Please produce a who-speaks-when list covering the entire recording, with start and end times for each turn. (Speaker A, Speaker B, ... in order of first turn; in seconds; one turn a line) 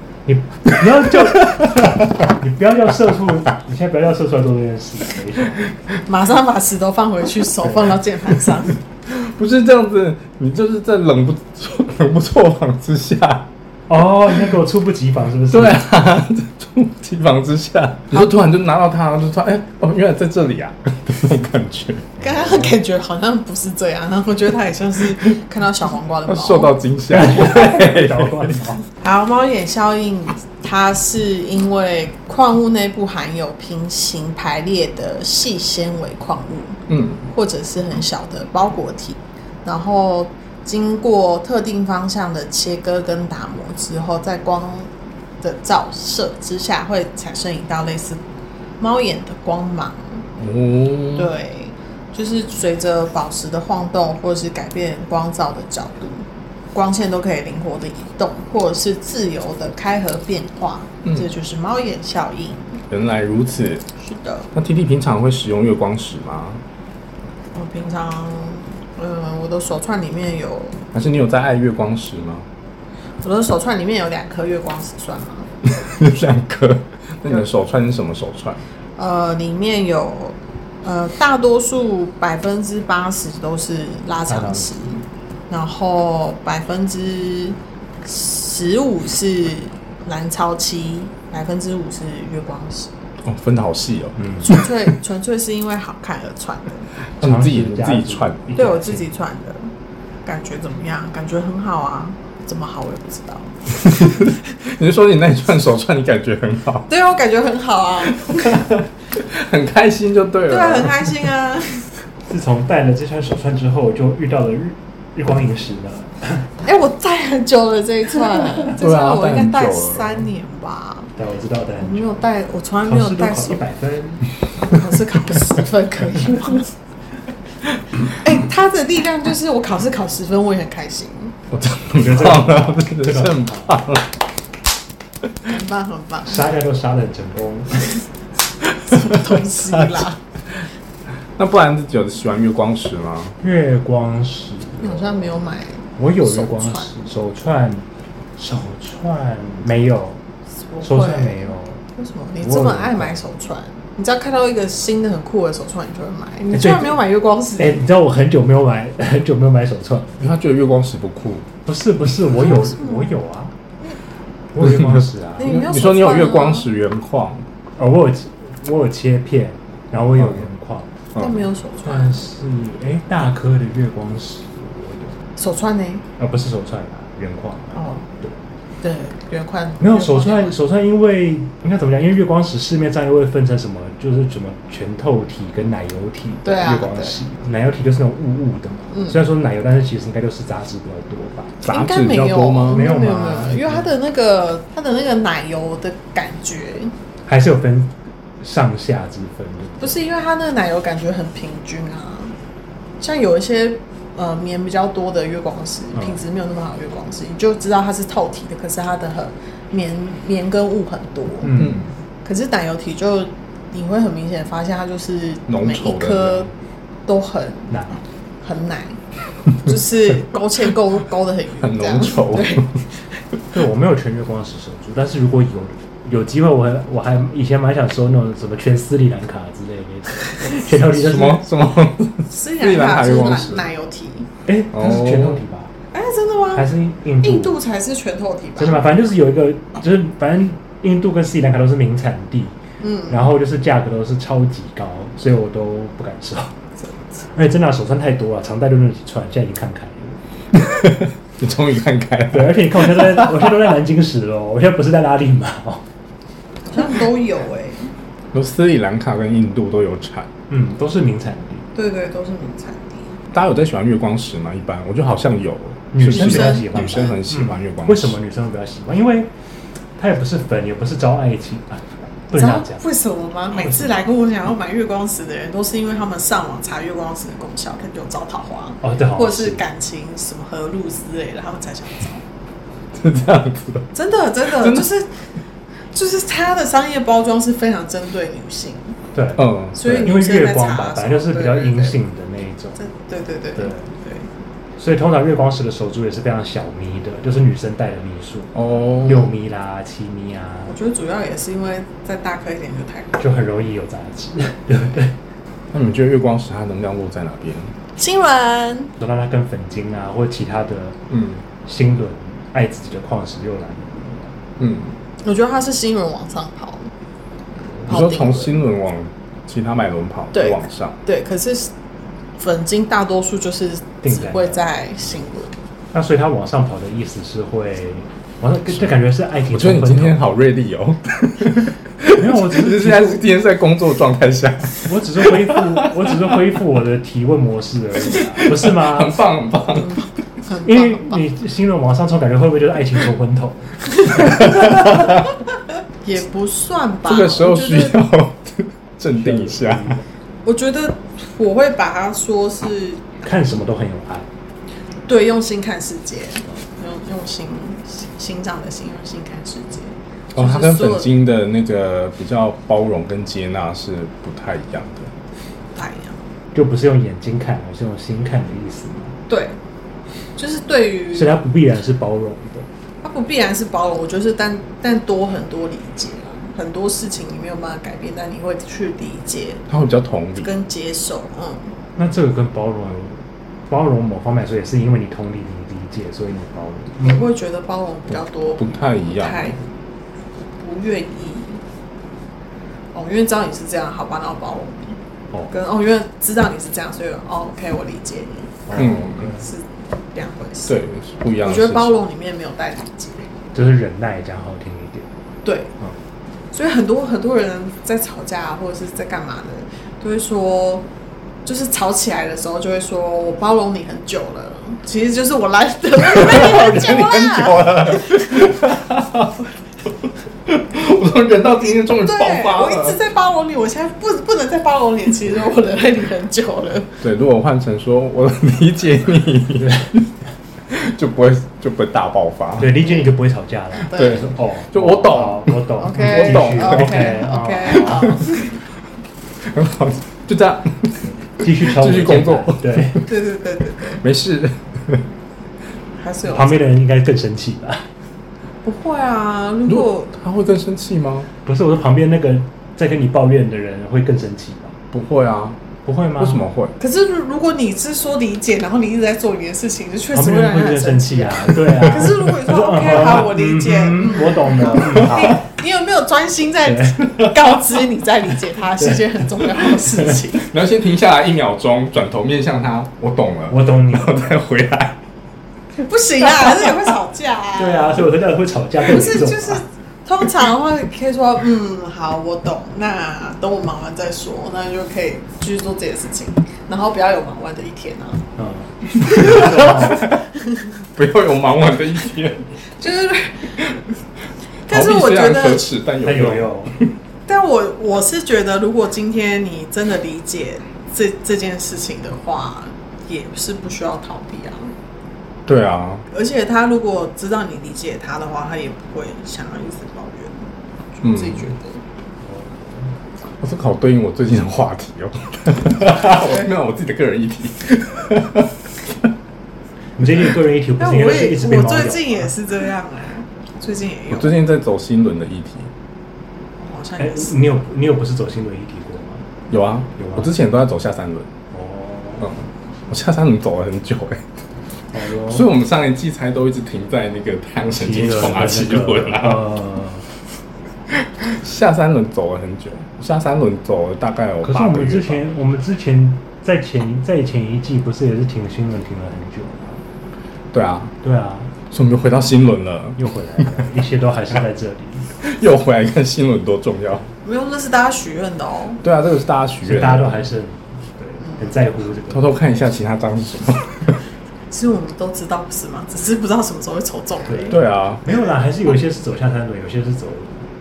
Speaker A: 0.3-5.6
Speaker B: 6.1-8.8
Speaker C: 9.1-13.5
Speaker A: 13.9-15.8
Speaker C: 15.5-22.1
Speaker A: 22.2-22.7
Speaker B: 22.2-26.8
Speaker C: 26.3-28.6
Speaker A: 27.1-28.9
Speaker B: 29.0-44.9
Speaker C: 36.9-37.2
Speaker B: 45.4-48.2
Speaker B: 48.8-50.3
Speaker C: 50.4-51.3
Speaker B: 51.1-62.8
Speaker C: 62.9-63.9
Speaker B: 64.0-64.5
Speaker C: 64.5-66.6
Speaker B: 67.5-70.9
Speaker C: 70.9-72.5
Speaker B: 73.2-75.5
Speaker C: 75.6-78.6
Speaker B: 79.0-92.9
Speaker A: 84.3-84.7
Speaker C: 93.2-94.5
Speaker A: 94.2-94.5
Speaker B: 94.4-96.9
Speaker C: 97.2-98.4
Speaker A: 97.2-99.1
Speaker B: 98.6-99.7
Speaker B: 100.3-103.8
Speaker C: 103.8-106.9
Speaker B: 106.9-108.6
Speaker C: 108.5-111.3
Speaker B: 110.5-111.9
Speaker A: 112.3-116.5
Speaker B: 116.6-121.1
Speaker C: 118.8-120.2
Speaker A: 121.2-122.3
Speaker B: 121.8-123.6
Speaker A: 122.8-124.3
Speaker B: 124.6-126.7
Speaker B: 128.1-131.3
Speaker C: 131.5-134.2
Speaker A: 132.0-133.8
Speaker B: 135.5-136.5
Speaker A: 136.2-138.0
Speaker C: 138.9-140.1
Speaker B: 138.9-140.2
Speaker C: 141.4-143.3
Speaker A: 143.4-145.3
Speaker B: 144.8-146.9
Speaker A: 146.0-147.8
Speaker A: 148.4-150.2
Speaker B: 150.7-157.8
Speaker A: 150.8-151.8
Speaker A: 152.4-153.2
Speaker A: 156.5-157.0
Speaker A: 157.6-160.2
Speaker C: 160.2-161.5
Speaker A: 161.7-163.5
Speaker B: 162.4-163.2
Speaker A: 164.5-165.5
Speaker C: 164.6-167.4
Speaker B: 165.4-166.7
Speaker A: 167.8-170.9
Speaker B: 171.2-172.1
Speaker A: 171.8-175.2
Speaker B: 175.4-176.1
Speaker A: 176.2-178.4
Speaker B: 177.8-178.1
Speaker B: 178.8-180.6
Speaker A: 179.8-191.6
Speaker B: 186.4-187.2
Speaker B: 188.9-189.2
Speaker C: 191.6-192.9
Speaker B: 191.7-196.9
Speaker A: 192.7-193.9
Speaker A: 197.3-200.0
Speaker B: 199.8-202.3
Speaker B: 203.0-211.5
Speaker A: 211.4-211.9
Speaker C: 211.6-211.9
Speaker B: 212.2-216.5
Speaker C: 215.5-216.5
Speaker B: 217.1-217.7
Speaker A: 217.7-218.0
Speaker B: 218.4-219.0
Speaker B: 219.6-222.8
Speaker C: 221.6-222.8
Speaker A: 223.5-231.4
Speaker C: 230.7-233.7
Speaker B: 232.3-234.3
Speaker A: 234.5-235.7
Speaker C: 234.7-235.4
Speaker B: 235.9-236.7
Speaker A: 236.6-237.6
Speaker B: 237.2-238.9
Speaker A: 238.6-242.5
Speaker B: 242.8-243.2
Speaker A: 243.1-246.5
Speaker A: 247.3-250.2
Speaker C: 250.5-253.5
Speaker A: 252.3-255.8
Speaker B: 256.7-257.9
Speaker C: 258.3-260.3
Speaker A: 260.5-261.7
Speaker B: 261.8-263.2
Speaker C: 263.3-268.2
Speaker A: 265.9-269.3
Speaker B: 266.1-267.2
Speaker A: 270.0-272.8
Speaker B: 272.3-282.2
Speaker A: 273.5-274.0
Speaker A: 278.8-279.6
Speaker C: 282.9-283.9
Speaker B: 283.9-285.1
Speaker C: 284.5-284.9
Speaker B: 285.9-289.0
Speaker A: 289.1-292.8
Speaker C: 289.4-290.1
Speaker B: 289.8-292.0
Speaker B: 292.8-294.3
Speaker A: 293.6-293.9
Speaker A: 294.8-298.5
Speaker C: 298.6-299.3
Speaker A: 299.1-300.8
Speaker B: 300.7-303.2
Speaker A: 303.2-305.2
Speaker C: 305.7-307.7
Speaker B: 308.0-308.9
Speaker A: 309.0-311.0
Speaker C: 311.1-311.4
Speaker A: 311.6-314.4
Speaker C: 314.6-315.0
Speaker B: 315.2-316.9
Speaker B: 317.9-318.6
Speaker C: 317.9-321.0
Speaker B: 320.3-321.7
Speaker B: 322.4-325.6
Speaker A: 324.0-324.6
Speaker A: 325.9-330.2
Speaker C: 329.5-336.1
Speaker A: 332.1-333.2
Speaker A: 334.9-339.2
Speaker C: 338.4-340.0
Speaker B: 339.7-341.2
Speaker A: 340.6-344.8
Speaker B: 344.1-344.9
Speaker B: 346.0-348.0
Speaker C: 347.1-350.0
Speaker A: 349.2-350.0
Speaker B: 350.4-353.1
Speaker A: 353.2-354.3
Speaker B: 355.1-361.1
Speaker C: 360.3-365.1
Speaker B: 365.8-366.2
Speaker A: 366.5-369.2
Speaker B: 369.3-369.6
Speaker B: 370.4-371.4
Speaker A: 371.1-372.7
Speaker B: 373.0-379.6
Speaker C: 379.7-380.5
Speaker B: 380.4-381.7
Speaker A: 382.0-387.3
Speaker B: 387.0-389.6
Speaker C: 388.6-389.6
Speaker B: 390.6-391.6
Speaker B: 392.9-395.0
Speaker B: 395.5-400.8
Speaker A: 398.7-399.4
Speaker C: 398.8-399.2
Speaker C: 400.7-402.0
Speaker B: 401.4-403.3
Speaker A: 403.5-405.1
Speaker B: 405.4-405.7
Speaker B: 406.5-410.9
Speaker B: 411.5-418.6
Speaker C: 416.0-419.4
Speaker C: 420.5-423.0
Speaker B: 422.0-426.9
Speaker C: 427.0-430.1
Speaker C: 430.7-432.8
Speaker A: 432.6-438.2
Speaker B: 433.9-434.2
Speaker C: 433.9-437.2
Speaker B: 435.8-438.6
Speaker C: 439.4-443.1
Speaker A: 441.4-443.0
Speaker B: 443.1-444.0
Speaker C: 443.9-445.1
Speaker B: 446.0-446.6
Speaker A: 446.3-447.9
Speaker B: 448.6-450.1
Speaker C: 449.7-451.3
Speaker A: 451.4-454.8
Speaker C: 454.9-455.6
Speaker A: 455.9-456.4
Speaker C: 456.2-456.8
Speaker B: 456.8-470.5
Speaker A: 460.1-465.5
Speaker A: 466.6-467.4
Speaker A: 468.8-469.0
Speaker A: 469.6-470.2
Speaker C: 470.5-475.0
Speaker A: 473.5-474.1
Speaker B: 475.8-478.0
Speaker A: 477.6-479.6
Speaker B: 478.9-488.3
Speaker A: 488.4-490.1
Speaker B: 489.0-490.7
Speaker C: 489.2-490.1
Speaker C: 490.9-492.5
Speaker B: 492.8-493.7
Speaker B: 494.7-495.7
Speaker C: 494.7-496.9
Speaker A: 496.0-496.7
Speaker B: 497.3-504.7
Speaker C: 505.5-506.1
Speaker B: 506.1-510.4
Speaker B: 511.0-511.8
Speaker C: 511.0-511.5
Speaker A: 512.2-512.9
Speaker C: 513.4-518.6
Speaker B: 515.8-516.5
Speaker A: 520.0-522.3
Speaker B: 520.8-524.4
Speaker C: 524.1-525.7
Speaker B: 526.6-527.3
Speaker A: 527.0-529.2
Speaker C: 529.5-531.3
Speaker A: 530.0-530.3
Speaker A: 531.5-532.3
Speaker C: 532.2-534.3
Speaker A: 534.9-535.5
Speaker C: 535.3-539.4
Speaker A: 537.8-540.0
Speaker C: 540.9-545.3
Speaker A: 544.4-549.8
Speaker C: 550.5-550.9
Speaker A: 551.0-551.5
Speaker C: 551.7-553.6
Speaker A: 553.0-555.1
Speaker C: 555.2-557.1
Speaker B: 557.2-558.8
Speaker C: 558.8-560.1
Speaker A: 559.6-562.3
Speaker B: 561.3-561.5
Speaker C: 562.1-564.0
Speaker B: 564.5-568.2
Speaker A: 567.3-570.5
Speaker C: 567.5-568.0